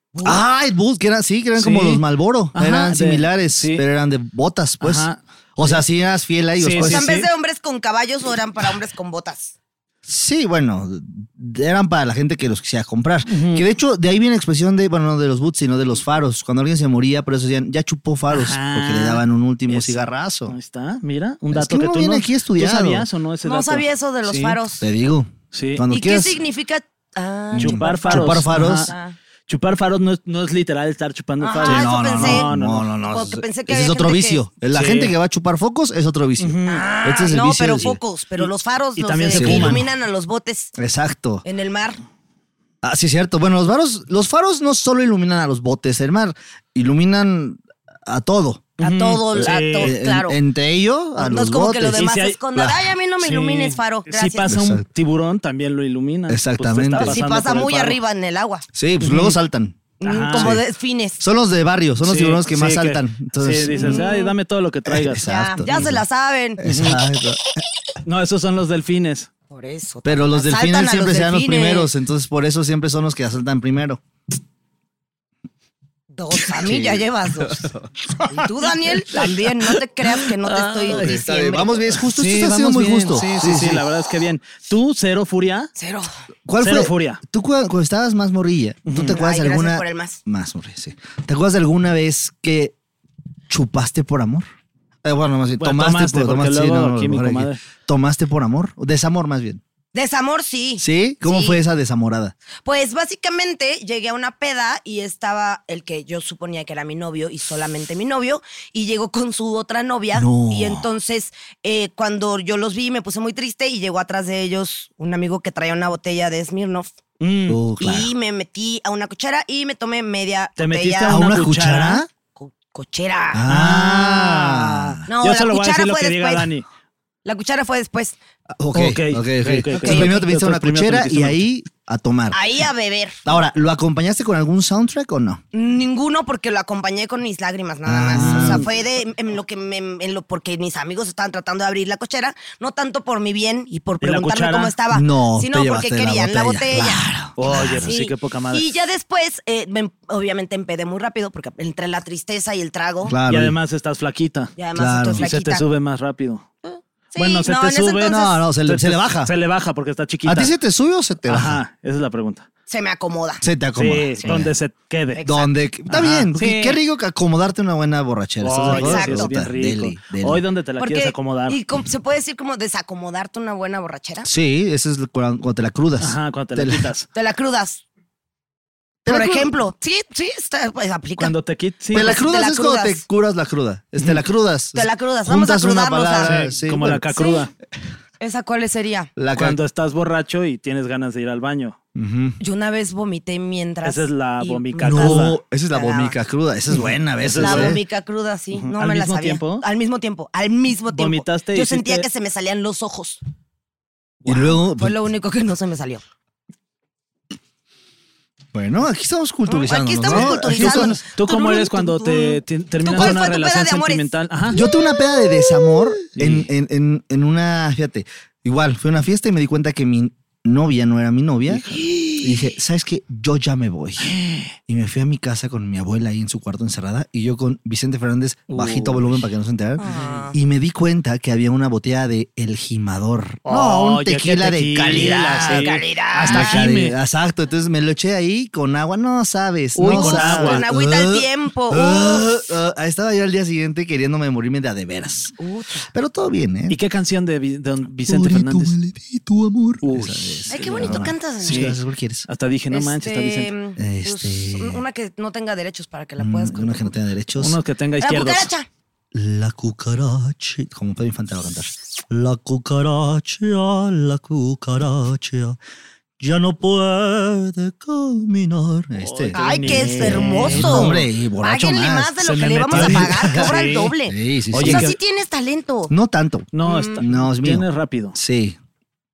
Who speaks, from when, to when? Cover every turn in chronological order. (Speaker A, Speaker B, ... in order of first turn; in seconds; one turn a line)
Speaker A: 0.1-0.4
Speaker B: 0.2-7.1
Speaker C: 1.6-3.8
Speaker C: 4.8-5.8
Speaker C: 6.6-7.3
Speaker A: 6.8-9.5
Speaker B: 10.0-20.5
Speaker C: 13.3-13.7
Speaker C: 18.3-24.6
Speaker B: 21.5-23.1
Speaker A: 23.4-24.8
Speaker B: 24.8-26.4
Speaker C: 25.5-25.9
Speaker A: 25.9-29.2
Speaker B: 27.5-28.9
Speaker C: 27.6-28.9
Speaker C: 29.5-32.9
Speaker A: 31.4-32.5
Speaker B: 31.6-38.0
Speaker A: 33.0-34.4
Speaker C: 34.7-35.1
Speaker C: 36.4-36.9
Speaker A: 36.6-40.7
Speaker C: 39.0-39.9
Speaker B: 39.3-39.8
Speaker B: 40.8-41.4
Speaker A: 41.4-42.0
Speaker B: 42.8-48.6
Speaker C: 48.8-50.0
Speaker A: 48.8-50.4
Speaker B: 49.3-52.0
Speaker A: 51.2-54.6
Speaker C: 51.9-52.4
Speaker B: 52.5-52.9
Speaker C: 53.2-58.0
Speaker B: 54.5-54.8
Speaker B: 56.3-57.2
Speaker A: 57.0-58.7
Speaker B: 58.7-59.8
Speaker C: 59.0-59.4
Speaker A: 60.0-61.2
Speaker C: 60.0-60.6
Speaker B: 60.3-60.6
Speaker B: 61.2-64.0
Speaker C: 62.0-65.9
Speaker A: 63.7-64.3
Speaker B: 64.8-66.0
Speaker A: 65.2-66.6
Speaker B: 66.6-67.6
Speaker C: 66.6-67.0
Speaker C: 68.0-69.3
Speaker A: 69.5-71.9
Speaker B: 70.0-74.0
Speaker A: 76.1-77.7
Speaker B: 76.5-78.5
Speaker A: 78.2-81.8
Speaker C: 79.1-79.5
Speaker C: 80.4-81.2
Speaker B: 80.9-83.8
Speaker C: 82.0-85.7
Speaker A: 85.8-86.1
Speaker B: 86.5-92.7
Speaker C: 86.6-87.2
Speaker C: 88.9-89.2
Speaker A: 89.1-90.2
Speaker B: 93.5-94.5
Speaker B: 95.0-99.6
Speaker C: 95.6-97.6
Speaker A: 99.9-101.6
Speaker B: 100.8-102.3
Speaker A: 102.6-116.9
Speaker B: 110.1-110.9
Speaker C: 117.2-117.6
Speaker B: 117.5-118.1
Speaker A: 117.8-121.2
Speaker C: 120.6-122.0
Speaker B: 121.1-122.1
Speaker A: 122.3-123.5
Speaker B: 123.3-125.1
Speaker C: 123.5-126.6
Speaker A: 125.1-126.5
Speaker A: 127.2-128.2
Speaker B: 128.5-132.4
Speaker C: 128.7-131.4
Speaker A: 129.7-130.2
Speaker A: 132.3-133.2
Speaker B: 133.2-135.4
Speaker A: 135.5-153.1
Speaker B: 137.8-138.7
Speaker C: 138.1-138.6
Speaker C: 144.0-144.7
Speaker B: 144.9-147.9
Speaker C: 147.3-148.7
Speaker B: 153.0-153.6
Speaker C: 153.3-154.5
Speaker A: 154.6-155.6
Speaker B: 154.7-155.2
Speaker C: 155.2-156.4
Speaker A: 156.6-158.4
Speaker C: 157.2-160.5
Speaker B: 158.0-159.3
Speaker B: 160.2-161.6
Speaker C: 161.3-162.4
Speaker A: 162.7-163.4
Speaker B: 163.4-164.5
Speaker C: 163.8-165.2
Speaker A: 165.2-165.5
Speaker B: 165.2-170.4
Speaker C: 165.9-166.8
Speaker C: 168.4-171.6
Speaker A: 168.7-169.4
Speaker A: 170.8-174.3
Speaker B: 174.2-176.9
Speaker C: 176.0-177.1
Speaker A: 177.1-177.8
Speaker B: 179.0-179.5
Speaker A: 179.1-181.3
Speaker C: 181.2-182.2
Speaker B: 181.9-187.0
Speaker A: 181.9-183.0
Speaker A: 184.7-186.3
Speaker C: 186.2-187.5
Speaker A: 187.1-187.4
Speaker A: 188.2-189.1
Speaker B: 189.2-189.6
Speaker C: 189.3-191.8
Speaker B: 191.9-192.4
Speaker A: 192.4-196.1
Speaker C: 193.8-195.4
Speaker B: 194.8-197.8
Speaker C: 197.2-197.8
Speaker A: 197.4-203.2
Speaker C: 198.5-199.6
Speaker C: 200.9-202.1
Speaker B: 204.2-205.0
Speaker A: 204.2-206.0
Speaker B: 208.5-211.0
Speaker A: 209.5-214.6
Speaker C: 210.0-214.6
Speaker B: 214.5-224.1
Speaker C: 216.1-216.5
Speaker C: 221.5-222.2
Speaker A: 221.8-222.3
Speaker C: 224.0-224.5
Speaker B: 224.7-235.7
Speaker C: 228.5-229.2
Speaker A: 229.8-230.3
Speaker C: 229.8-230.2
Speaker C: 233.4-236.9
Speaker A: 234.9-236.6
Speaker B: 236.2-245.3
Speaker C: 239.7-240.6
Speaker A: 239.9-242.3
Speaker A: 245.4-245.9
Speaker B: 245.9-246.8
Speaker C: 246.7-248.7
Speaker B: 248.0-252.2
Speaker C: 249.8-253.5
Speaker A: 250.5-251.8
Speaker A: 252.7-256.9
Speaker B: 253.8-254.8
Speaker B: 256.2-257.6
Speaker C: 257.4-258.5
Speaker A: 258.0-258.7
Speaker B: 259.1-265.6
Speaker B: 266.2-272.1
Speaker C: 268.9-271.0
Speaker A: 269.3-275.9
Speaker C: 272.2-273.9
Speaker B: 272.7-273.5
Speaker B: 274.1-274.9
Speaker C: 274.5-275.0
Speaker B: 275.9-278.6
Speaker C: 276.5-278.2
Speaker A: 276.6-277.0